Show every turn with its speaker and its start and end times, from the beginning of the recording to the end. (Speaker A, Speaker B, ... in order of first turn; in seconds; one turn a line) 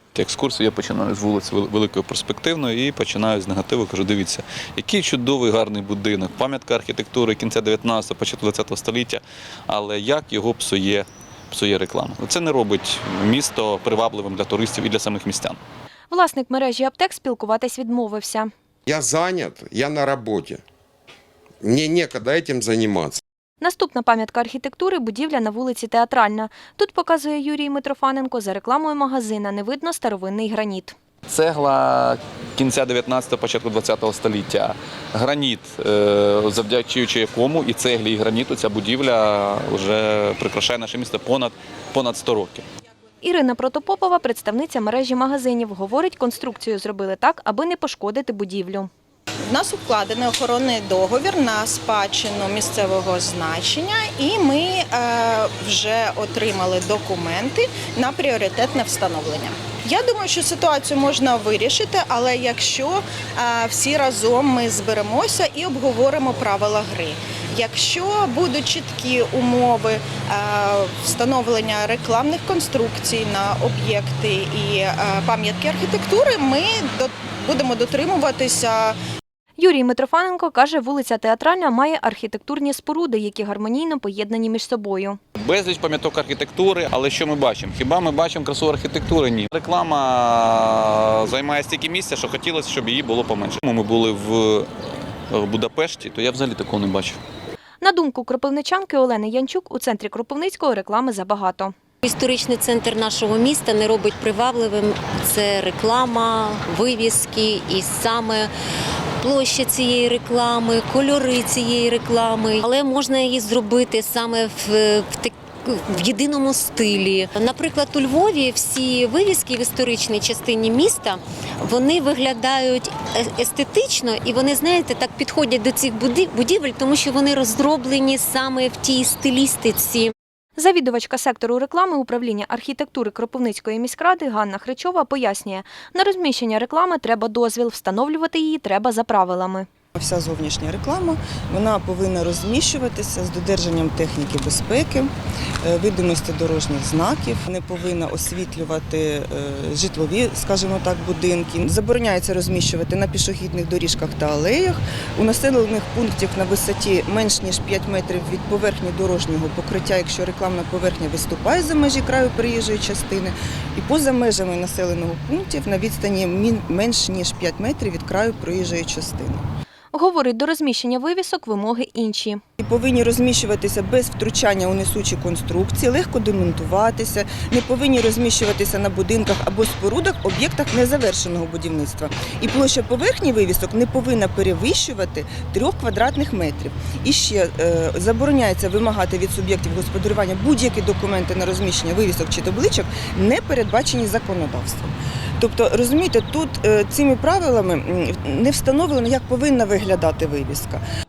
Speaker A: 0.1-15.6
Speaker B: 16.1-18.5
Speaker C: 18.9-20.6
Speaker C: 21.6-23.2
Speaker B: 23.6-30.9
Speaker A: 31.3-42.6
Speaker B: 43.2-48.9
Speaker D: 49.5-79.0
Speaker B: 79.6-85.2
Speaker A: 85.4-94.7
Speaker A: 95.3-97.2
Speaker B: 97.8-101.7
Speaker E: 102.0-108.5
Speaker E: 109.2-130.1
Speaker B: 130.6-139.7
Speaker F: 139.9-145.1
Speaker F: 145.6-169.4
Speaker B: 169.9-172.4
Speaker F: 172.6-200.8